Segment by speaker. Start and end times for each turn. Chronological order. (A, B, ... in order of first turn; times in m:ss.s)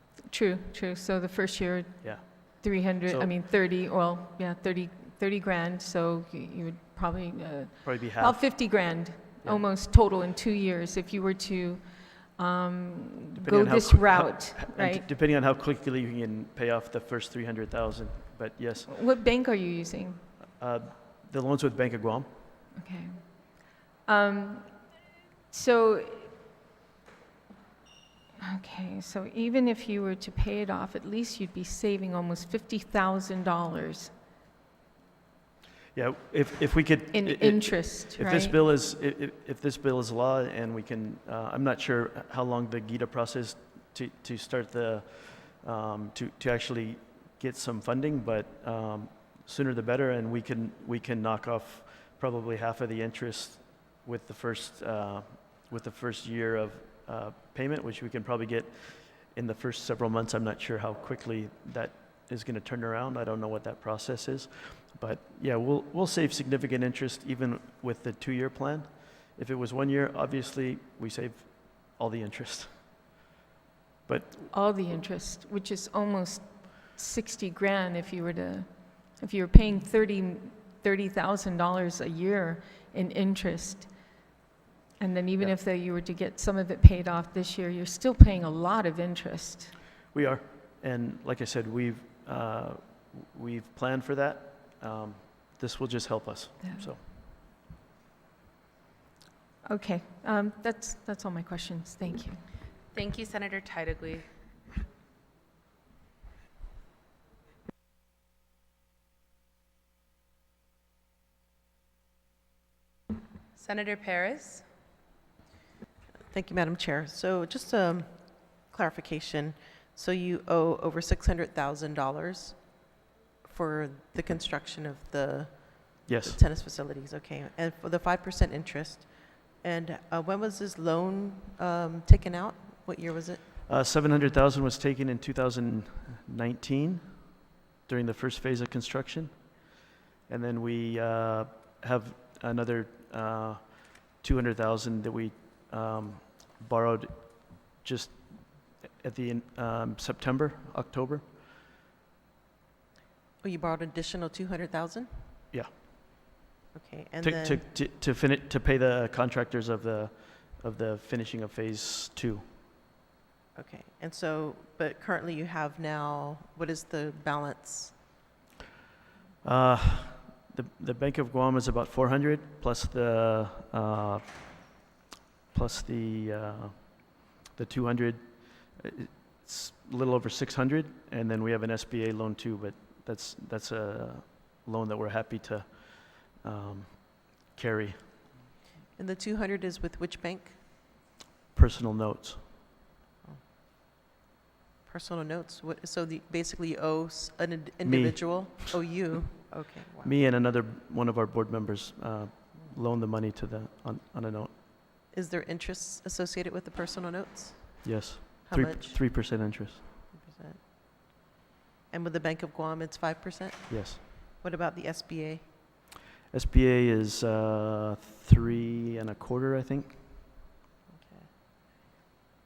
0:00.3-0:15.1 A
0:02.0-0:03.3 B
0:07.8-0:09.7 B
0:13.4-0:18.9 B
0:18.9-0:20.3 A
0:20.6-0:22.3 B
0:22.8-0:25.0 A
0:25.5-0:26.3 A
0:28.4-0:34.1 A
0:35.9-1:12.9 B
0:37.1-0:38.6 A
1:14.1-1:14.5 B
1:14.5-1:23.9 A
1:25.0-1:29.8 A
1:30.1-1:37.0 B
1:36.6-1:36.9 A
1:39.6-1:42.4 A
1:42.9-1:44.3 C
1:53.6-1:54.7 C
1:56.3-2:02.9 D
2:03.4-2:13.5 D
2:06.1-2:06.4 B
2:13.7-2:19.7 B
2:20.3-2:31.2 B
2:33.4-2:35.3 D
2:36.7-2:37.6 D
2:37.2-2:42.4 B
2:43.6-2:48.0 D
2:49.4-2:54.6 B
2:55.5-3:08.1 B
3:09.0-3:10.6 D
3:11.5-3:12.4 B
3:14.9-3:20.1 D
3:17.8-3:18.8 B
3:20.0-3:24.5 B
3:25.1-3:29.0 D
3:27.8-3:29.8 B
3:30.1-3:30.6 D
3:31.9-3:35.4 D
3:33.7-3:34.0 B
3:36.3-3:40.0 B
3:41.0-3:41.3 D